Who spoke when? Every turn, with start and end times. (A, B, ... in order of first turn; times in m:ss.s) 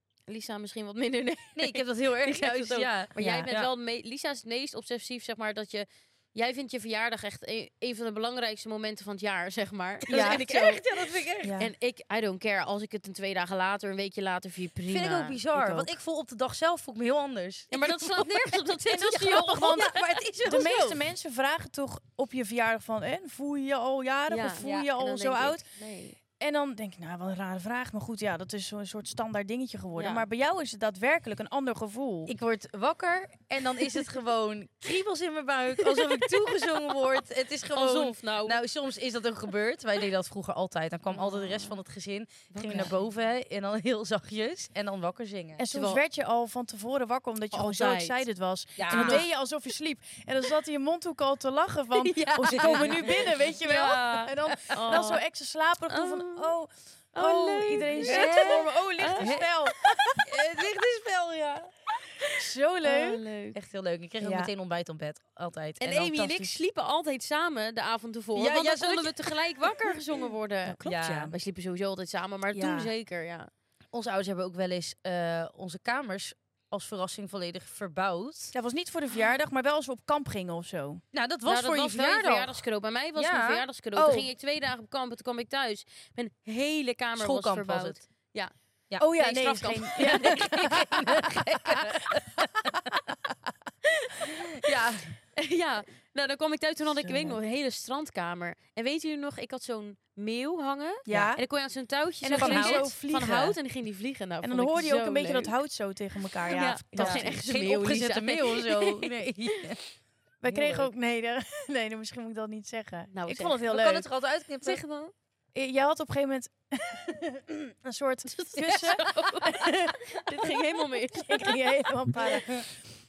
0:00.3-0:10.9 A
0:01.5-0:03.7 B
0:10.1-0:11.6 B
0:10.1-0:10.4 C
0:11.4-0:11.7 C
0:11.6-0:15.4 A
0:14.9-0:21.0 B
0:15.5-0:15.9 C
0:17.7-0:20.1 A
0:18.9-0:25.6 C
0:24.3-0:26.2 A
0:24.6-0:24.9 B
0:26.4-0:32.3 C
0:29.9-0:30.2 A
0:32.3-0:45.6 B
0:37.7-0:38.6 A
0:41.1-0:41.8 A
0:42.5-0:42.9 A
0:45.6-1:00.2 C
0:45.7-0:46.0 A
0:47.5-0:48.2 A
0:48.8-0:49.2 B
0:48.9-0:49.3 A
0:52.1-0:53.6 B
0:52.2-0:55.2 A
0:54.1-0:55.1 B
0:55.9-0:56.5 A
0:57.1-0:59.9 A
0:58.0-0:59.5 B
1:00.2-1:01.7 B
1:02.2-1:03.6 A
1:02.3-1:03.2 C
1:03.5-1:06.3 B
1:04.2-1:04.5 C
1:05.8-1:13.5 A
1:06.1-1:06.6 C
1:08.3-1:09.4 B
1:10.6-1:11.3 C
1:10.8-1:11.3 B
1:12.5-1:12.9 C
1:13.9-1:18.5 B
1:18.5-1:21.0 C
1:21.1-1:22.6 B
1:21.4-1:28.5 A
1:23.2-1:23.6 B
1:24.0-1:24.3 C
1:27.2-1:28.0 B
1:29.0-1:32.2 C
1:29.2-1:30.8 A
1:30.0-1:32.9 B
1:33.8-1:34.5 A
1:34.5-1:35.1 B
1:35.4-1:45.5 A
1:37.0-1:37.4 C
1:41.1-1:41.4 C
1:42.2-1:43.6 C
1:42.3-1:42.9 B
1:44.4-1:47.4 C
1:46.4-1:49.8 A
1:47.0-1:49.8 B
1:50.4-1:54.0 C
1:50.5-1:50.9 B
1:53.1-1:53.6 A
1:53.6-1:54.8 B
1:54.6-1:55.1 A
1:55.5-2:00.5 C
1:58.3-2:01.6 A
2:01.1-2:02.7 C